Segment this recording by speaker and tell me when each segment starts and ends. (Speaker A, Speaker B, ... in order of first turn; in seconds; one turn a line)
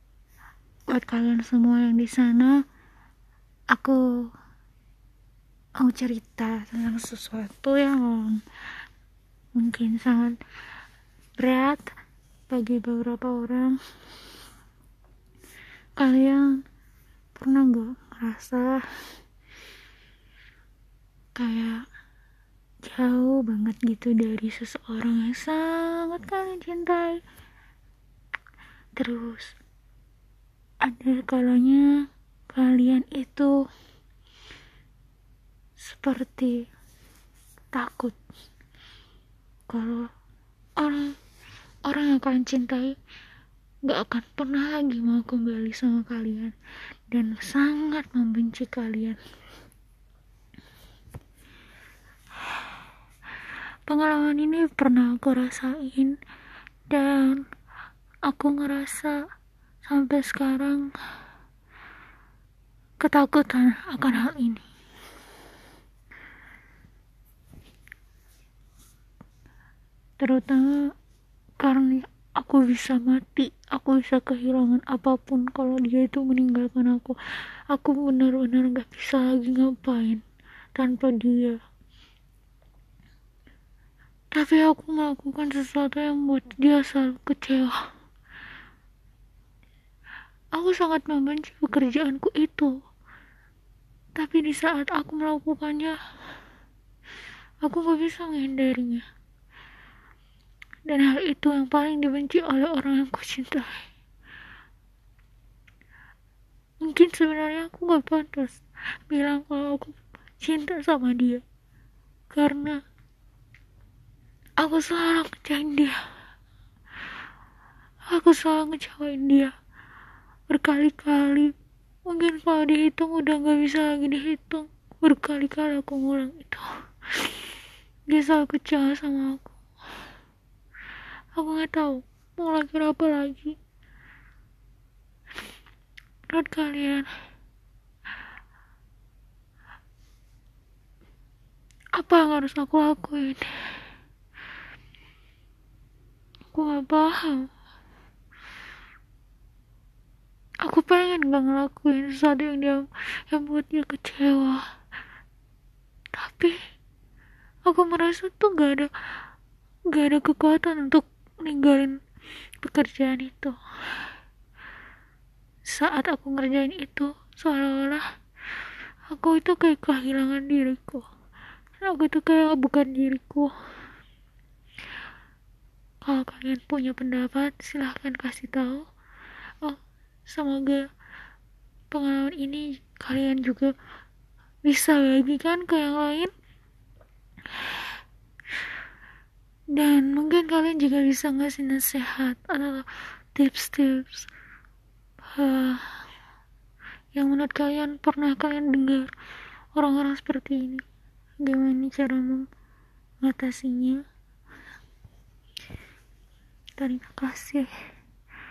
Speaker A: 0.9-2.6
Speaker A: 3.7-4.3
Speaker A: 5.8-8.4
Speaker A: 9.6-10.4
Speaker A: 11.4-11.9
Speaker A: 12.5-13.8
Speaker A: 16.0-16.6
Speaker A: 17.4-18.9
Speaker A: 21.4-21.9
Speaker A: 22.8-27.2
Speaker A: 29.0-29.6
Speaker A: 30.8-31.9
Speaker A: 32.5-33.5
Speaker A: 35.8-36.6
Speaker A: 37.7-38.2
Speaker A: 39.7-40.0
Speaker A: 40.8-41.1
Speaker A: 41.9-43.0
Speaker A: 43.8-46.5
Speaker A: 47.1-49.2
Speaker A: 53.9-56.2
Speaker A: 56.9-57.4
Speaker A: 58.3-59.2
Speaker A: 59.8-60.9
Speaker A: 63.0-64.6
Speaker A: 70.2-70.8
Speaker A: 71.6-77.2
Speaker A: 77.7-80.2
Speaker A: 80.8-81.6
Speaker A: 84.3-87.8
Speaker A: 90.5-92.8
Speaker A: 94.2-96.0
Speaker A: 97.6-99.0
Speaker A: 100.9-103.9
Speaker A: 106.8-111.4
Speaker A: 112.3-112.8
Speaker A: 114.6-116.0
Speaker A: 118.1-119.5
Speaker A: 120.5-121.5
Speaker A: 122.0-126.6
Speaker A: 128.1-129.6
Speaker A: 131.3-133.6
Speaker A: 136.3-137.1
Speaker A: 141.9-143.7
Speaker A: 146.5-147.5
Speaker A: 150.6-154.6
Speaker A: 156.1-156.6
Speaker A: 157.7-158.9
Speaker A: 159.9-162.0
Speaker A: 162.6-163.6
Speaker A: 165.7-168.0
Speaker A: 169.1-171.0
Speaker A: 171.8-173.5
Speaker A: 176.0-178.8
Speaker A: 179.6-180.8
Speaker A: 181.9-183.7
Speaker A: 184.7-186.3
Speaker A: 189.7-194.3
Speaker A: 195.3-195.9
Speaker A: 197.1-199.1
Speaker A: 199.8-200.8
Speaker A: 201.4-202.4
Speaker A: 203.2-204.0
Speaker A: 206.8-207.7